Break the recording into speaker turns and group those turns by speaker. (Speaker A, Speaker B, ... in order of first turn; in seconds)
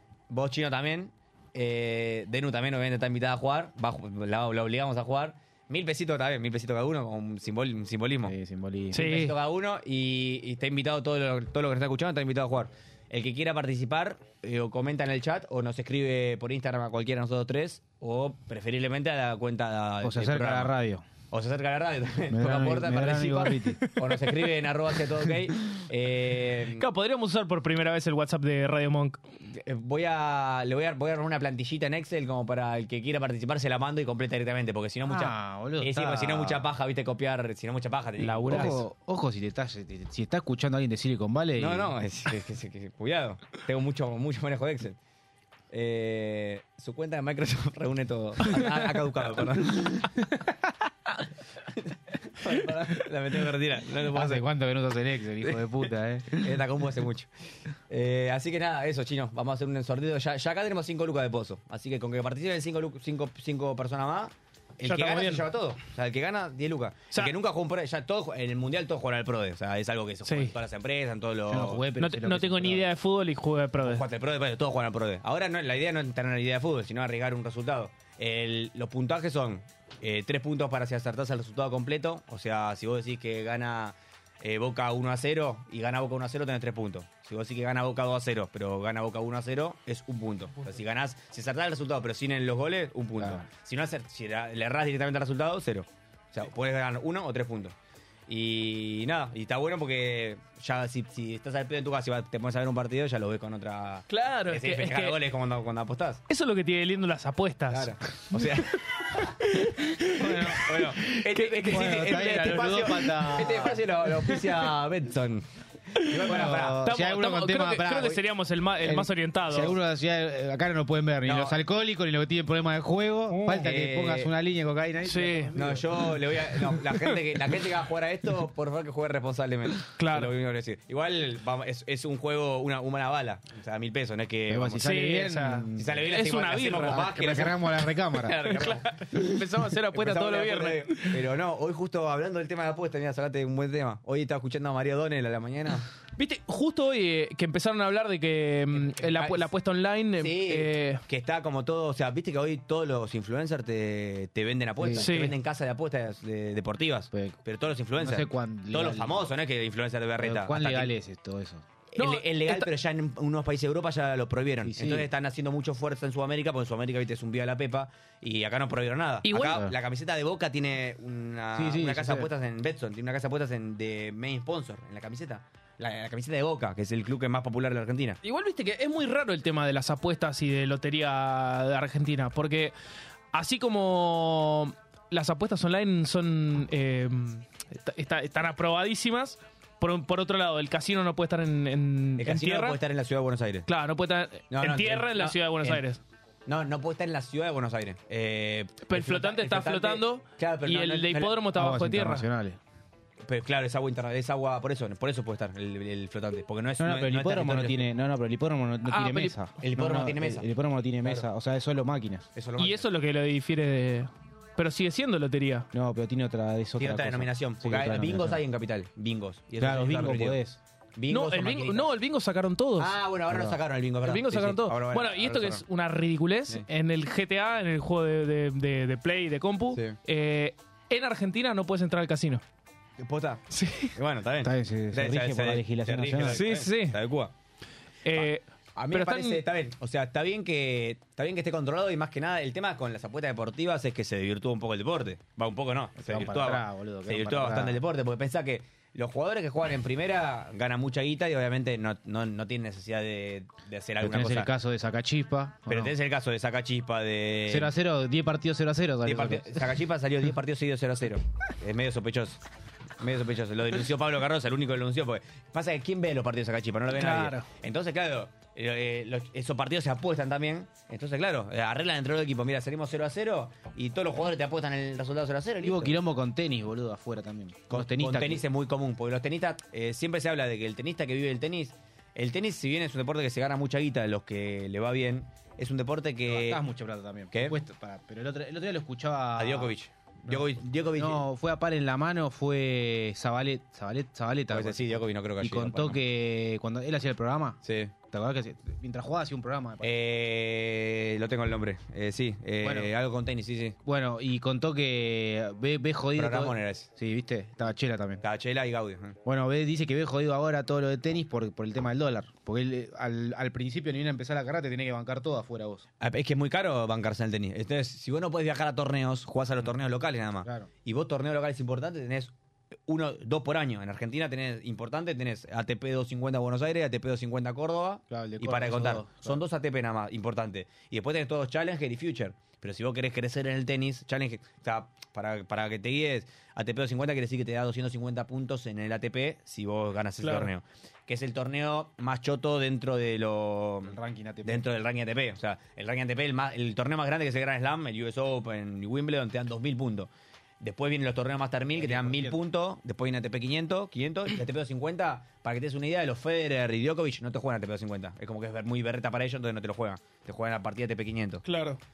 Speaker A: 0.3-8.3, 8.9-20.7, 21.3-26.9, 29.5-38.8, 41.6-45.0, 45.7-50.2, 52.4-54.4, 55.4-57.3, 57.9-71.8, 73.8-97.8, 98.3-106.2, 107.7-109.3, 110.5-116.8, 121.2-121.6, 123.6-124.3, 125.5-134.9, 135.8-139.4, 139.9-145.9, 148.7-149.5, 150.2-160.9, 161.9-178.2, 192.2-193.7, 194.5-195.8, 196.5-201.4, 203.2-207.9, 209.6-210.5, 212.3-212.9, 216.8-220.4, 221.0-221.9, 222.8-225.6, 233.0-237.3, 238.1-254.5, 255.7-257.7, 259.0-262.4, 263.0-276.0, 277.7-286.6, 289.4-291.2, 294.5-296.0, 297.6-297.9, 299.8-303.8, 306.1-306.9, 308.2-309.2, 316.0-322.3, 322.9-350.1, 350.6-361.4
Speaker B: 8.2-9.2, 20.0-21.1, 22.3-23.8, 35.1-36.7, 38.5-42.0, 54.1-56.6, 71.5-72.9, 93.2-93.5, 110.1-110.9, 111.6-113.8, 116.2-118.2, 118.8-126.2, 134.5-136.0, 136.8-138.4, 154.8-155.1, 157.1-157.4, 158.0-159.3, 160.2-161.6, 164.6-165.1, 169.4-169.7, 171.6-172.3, 201.5-202.6, 206.8-212.3, 215.7-218.4, 219.6-220.6, 223.3-223.6, 234.4-236.7, 246.0-247.8, 254.0-255.9, 257.5-259.8, 275.6-278.4, 286.3-289.7, 290.3-299.9, 302.6-302.9, 303.9-308.2, 309.2-315.9, 320.4-320.7, 328.1-329.4, 343.8-344.7, 351.7-352.4
Speaker C: 8.9-9.3, 26.8-29.2, 38.2-38.8, 64.8-65.5, 70.3-70.5, 72.0-74.0, 104.1-105.2, 106.3-108.4, 109.3-112.8, 116.0-119.8, 123.3-123.7, 125.0-125.5, 129.9-130.3, 134.8-137.4, 138.4-141.2, 146.2-151.0, 155.0-155.4, 162.0-162.7, 169.2-169.7, 178.2-182.7, 183.3-192.8, 193.7-196.0, 198.9-202.3, 208.8-209.4, 212.6-215.7, 221.1-223.0, 224.0-232.4, 233.5-233.9, 236.2-237.0, 238.1-239.4, 266.9-267.5, 340.2-340.5, 361.4-361.8